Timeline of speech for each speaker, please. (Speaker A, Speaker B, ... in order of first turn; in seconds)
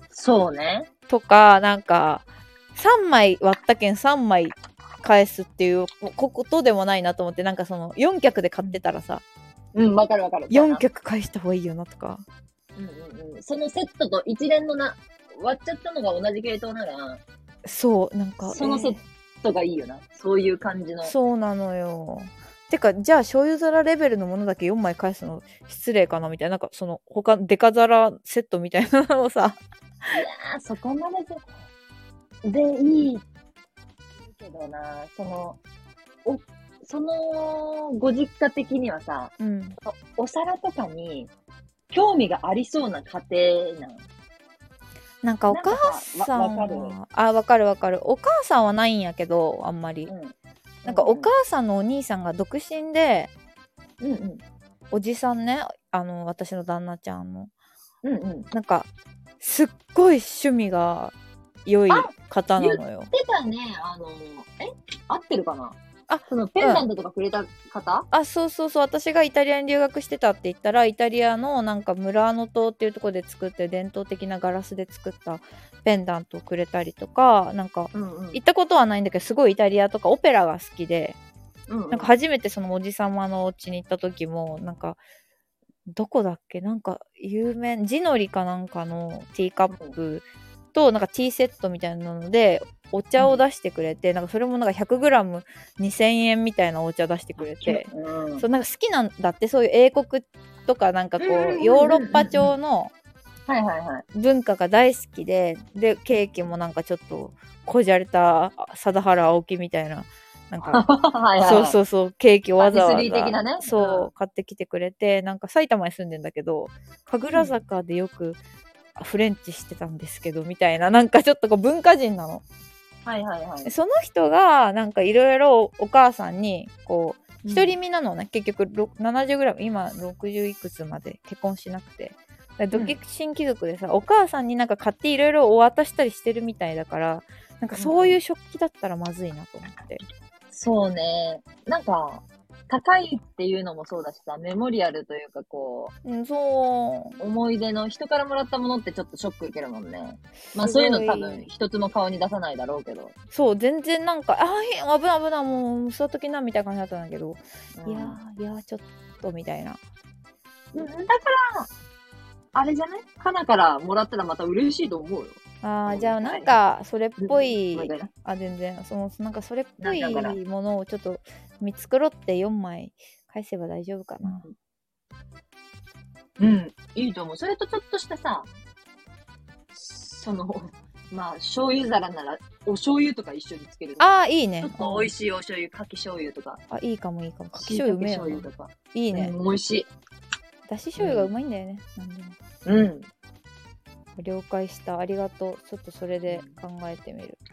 Speaker A: 0.1-0.9, 9.7-10.8, 12.8-17.2, 18.5-21.1, 30.1-31.4, 32.4-33.2, 34.2-35.6, 36.2-41.3, 41.9-44.1, 45.5-47.0, 50.1-51.3, 54.0-54.4, 58.0-58.5, 61.9-68.1, 77.9-78.4, 81.7-82.1, 89.7-90.0, 93.2-93.4, 97.4-98.4, 101.2-102.5, 103.5-104.0, 110.6-111.8, 112.6-114.1, 117.3-117.6, 123.0-123.7, 127.4-127.8, 132.7-133.0, 137.8-138.2, 140.5-145.9, 147.2-153.1, 157.8-158.2, 160.7-161.7, 162.5-166.5, 167.2-168.1, 169.8-170.3, 174.2-174.5, 176.4-178.5, 179.7-184.1, 184.6-186.6, 187.5-189.9, 191.0-191.3, 192.6-193.1, 196.3-196.5
Speaker B: 1.1-9.2, 10.5-12.2, 17.6-19.0, 21.0-29.6, 39.4-39.8, 45.2-50.1, 50.8-53.3, 54.9-57.5, 58.5-58.9, 59.4-61.1, 61.6-63.1, 66.1-66.8, 68.1-81.2, 81.9-85.0, 85.9-102.9, 104.1-110.8, 111.4-118.4, 119.0-122.4, 123.6-140.0, 146.0-147.2, 150.5-151.4, 153.3-159.8, 165.6-174.5, 184.0-185.1, 186.7-189.3, 190.7-192.4, 194.2-197.4